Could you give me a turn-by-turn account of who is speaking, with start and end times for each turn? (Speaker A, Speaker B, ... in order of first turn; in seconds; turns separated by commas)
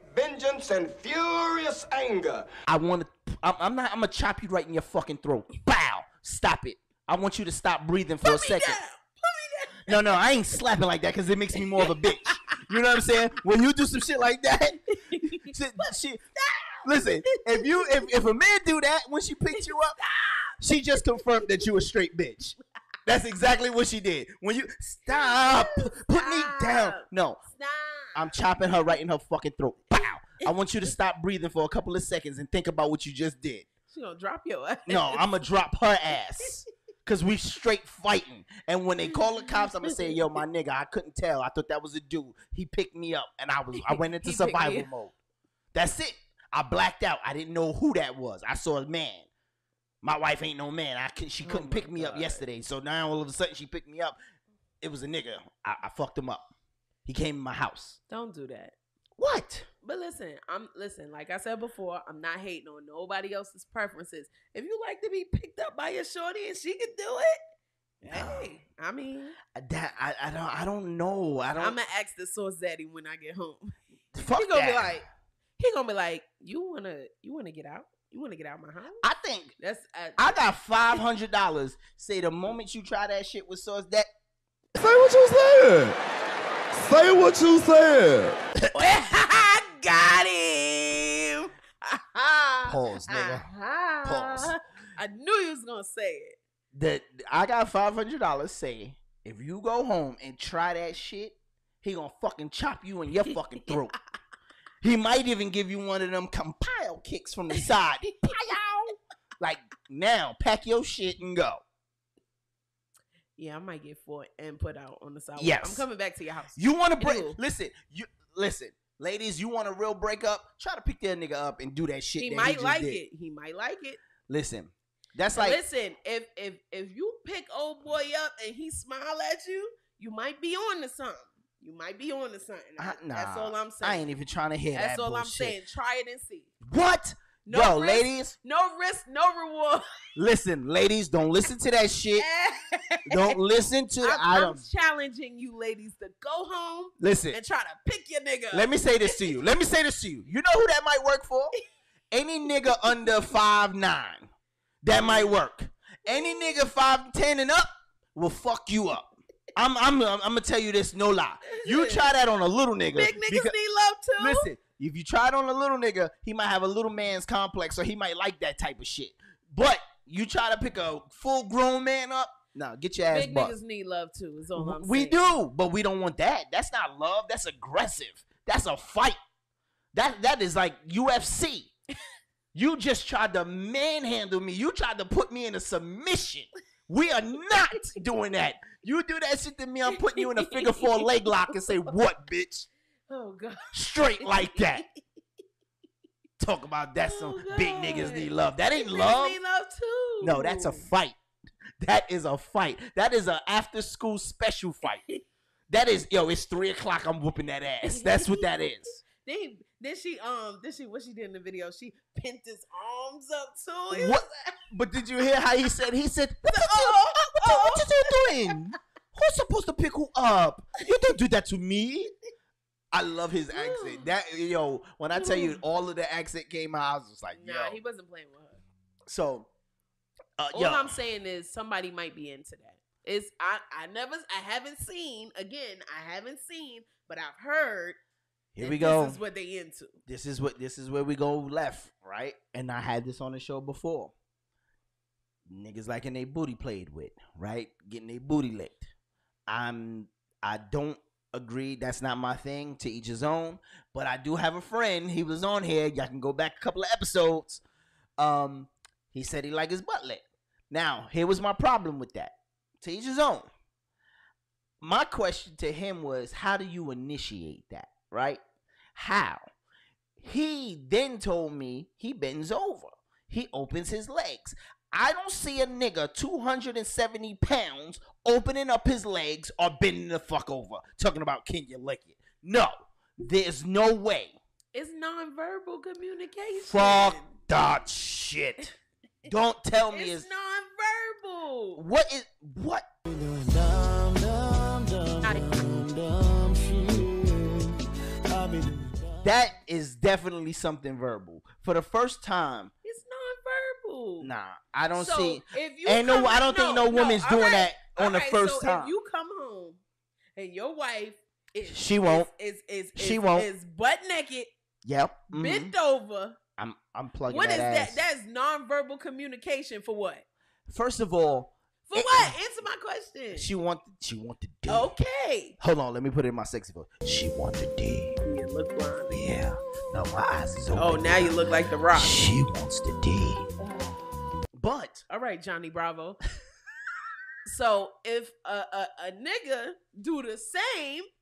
Speaker A: 2.6-8.8, Speaker B: 8.2-10.2, Speaker A: 9.9-14.8, Speaker B: 15.1-18.1, Speaker A: 15.4-16.2, Speaker A: 16.8-19.9, Speaker B: 19.5-21.5, Speaker A: 20.6-27.4, Speaker B: 25.1-28.4, Speaker A: 28.1-33.6, Speaker B: 33.9-35.2, Speaker A: 34.9-45.1, Speaker B: 39.1-40.2, Speaker B: 43.9-44.9, Speaker A: 45.7-49.3, Speaker A: 50.0-54.2, Speaker B: 51.4-52.4, Speaker A: 54.8-56.5, Speaker A: 57.0-58.0, Speaker B: 58.1-58.7, Speaker A: 59.2-59.7, Speaker B: 59.8-67.4, Speaker B: 68.0-69.3, Speaker A: 68.1-68.5, Speaker A: 69.5-71.8, Speaker B: 71.6-75.0, Speaker A: 74.1-75.0, Speaker B: 75.6-79.0, Speaker A: 79.0-79.5, Speaker B: 79.6-80.3, Speaker A: 80.2-84.1, Speaker A: 84.8-85.9, Speaker C: 87.1-88.2, Speaker A: 88.6-88.8, Speaker B: 88.7-96.4, Speaker A: 92.7-93.5, Speaker A: 94.0-94.5, Speaker A: 96.7-103.9, Speaker A: 104.8-111.6, Speaker B: 113.4-117.4, Speaker A: 115.3-115.8, Speaker A: 116.5-123.0, Speaker B: 122.2-124.0, Speaker A: 124.3-125.6, Speaker B: 125.3-134.1, Speaker A: 132.8-135.6, Speaker B: 134.7-136.5, Speaker A: 136.6-138.3, Speaker B: 137.5-139.8, Speaker A: 140.2-142.2, Speaker B: 142.2-143.4, Speaker A: 143.1-144.6, Speaker B: 144.0-149.3, Speaker A: 147.0-147.4, Speaker A: 148.5-151.5, Speaker A: 152.1-154.3, Speaker A: 154.8-163.5, Speaker B: 154.9-155.3, Speaker B: 156.1-156.6, Speaker B: 161.5-162.1, Speaker B: 162.9-164.5, Speaker A: 164.2-173.6, Speaker B: 173.1-175.3, Speaker A: 174.5-179.2, Speaker A: 179.9-181.7, Speaker A: 182.5-192.7, Speaker B: 189.9-191.6, Speaker B: 193.1-194.7, Speaker A: 193.7-194.8, Speaker A: 196.4-199.4, Speaker B: 197.0-200.9, Speaker A: 200.2-201.2, Speaker A: 201.8-205.0, Speaker A: 205.7-209.0, Speaker B: 207.9-208.4, Speaker B: 209.0-214.3, Speaker A: 213.9-222.1, Speaker B: 216.4-218.5, Speaker A: 222.9-227.8, Speaker B: 223.5-224.1, Speaker B: 225.1-225.6, Speaker B: 227.3-228.6, Speaker A: 229.1-229.5, Speaker A: 230.4-230.9, Speaker B: 230.5-238.0, Speaker A: 238.5-239.2, Speaker B: 238.6-240.0, Speaker A: 240.1-244.1, Speaker A: 245.4-248.9, Speaker A: 249.5-257.6, Speaker A: 258.2-263.5, Speaker A: 264.8-268.4, Speaker A: 268.9-269.4, Speaker A: 270.2-284.4, Speaker B: 284.7-287.4, Speaker A: 286.6-288.7, Speaker A: 289.3-290.3, Speaker B: 289.8-291.8, Speaker A: 291.7-292.9, Speaker C: 293.1-294.8, Speaker C: 298.5-298.9, Speaker A: 299.2-302.7, Speaker B: 302.8-304.3, Speaker A: 304.2-308.9, Speaker B: 304.9-309.8, Speaker B: 310.4-314.5, Speaker A: 311.7-312.3, Speaker A: 312.9-313.5, Speaker A: 314.8-315.7, Speaker B: 315.3-316.4, Speaker A: 316.6-318.0, Speaker B: 317.3-320.2, Speaker A: 320.7-322.3, Speaker B: 321.9-323.5, Speaker A: 323.3-324.9, Speaker B: 324.7-325.5, Speaker A: 325.6-328.1, Speaker B: 328.2-329.2, Speaker A: 329.1-331.4, Speaker B: 330.7-332.2, Speaker A: 331.9-333.4, Speaker A: 334.5-335.0, Speaker B: 335.1-336.2, Speaker B: 337.4-341.1